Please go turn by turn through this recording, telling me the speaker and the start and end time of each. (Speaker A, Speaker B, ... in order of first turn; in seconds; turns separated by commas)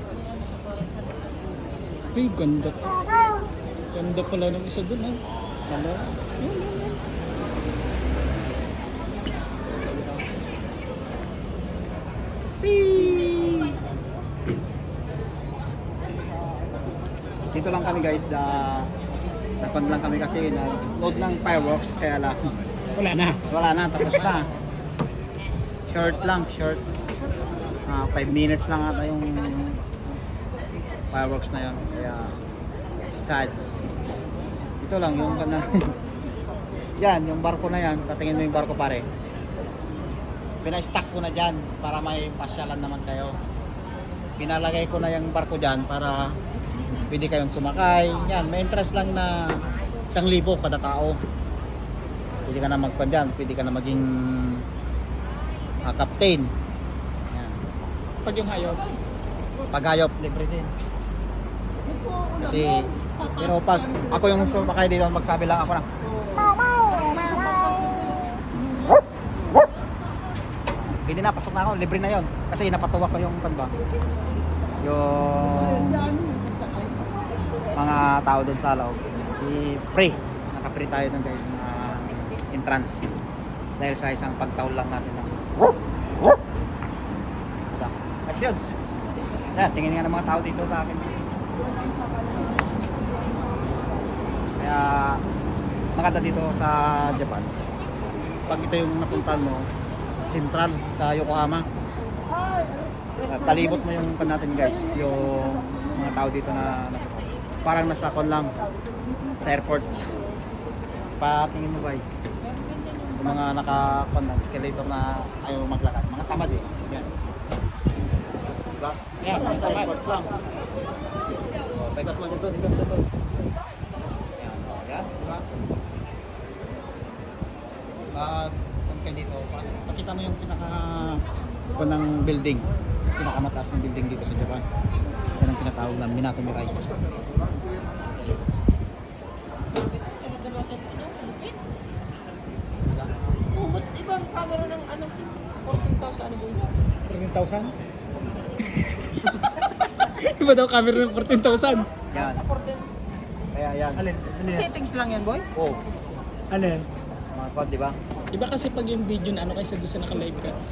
Speaker A: 2.1-3.1, Speaker A: 3.9-7.0, Speaker B: 12.6-13.8, Speaker B: 17.5-18.9, Speaker B: 19.6-22.4, Speaker A: 22.9-23.4, Speaker B: 23.5-24.5, Speaker B: 25.9-26.8, Speaker B: 27.9-29.8, Speaker B: 31.1-32.4, Speaker B: 33.1-33.6, Speaker B: 34.8-35.9, Speaker B: 37.0-39.1, Speaker B: 40.6-43.4, Speaker B: 44.4-46.4, Speaker B: 47.1-51.2, Speaker B: 52.5-54.6, Speaker B: 55.8-56.5, Speaker B: 57.3-57.6, Speaker A: 58.2-58.9, Speaker B: 59.7-60.7, Speaker C: 62.0-62.3, Speaker B: 62.4-65.9, Speaker C: 66.3-68.0, Speaker D: 66.8-68.3, Speaker B: 70.9-73.7, Speaker B: 74.8-76.1, Speaker B: 77.8-83.1, Speaker B: 83.8-85.4, Speaker B: 87.7-88.6, Speaker B: 89.5-91.2, Speaker B: 94.6-95.2, Speaker B: 96.0-97.5, Speaker B: 98.5-99.6, Speaker B: 100.2-101.6, Speaker B: 103.2-108.5, Speaker B: 109.4-110.1, Speaker B: 111.2-112.0, Speaker D: 112.6-113.1, Speaker B: 113.1-117.1, Speaker B: 118.7-120.3, Speaker A: 119.2-119.8, Speaker B: 121.7-123.1, Speaker B: 124.4-125.3, Speaker B: 128.2-131.2, Speaker B: 131.8-132.7, Speaker B: 133.2-134.6, Speaker B: 135.4-136.9, Speaker D: 139.8-141.6, Speaker D: 143.5-146.7, Speaker A: 147.1-147.7, Speaker A: 148.7-152.0, Speaker B: 152.1-152.4, Speaker D: 152.1-152.9, Speaker B: 153.5-154.1, Speaker C: 154.1-154.4, Speaker D: 154.4-155.5, Speaker A: 156.5-156.8, Speaker B: 157.3-158.0, Speaker A: 158.3-160.6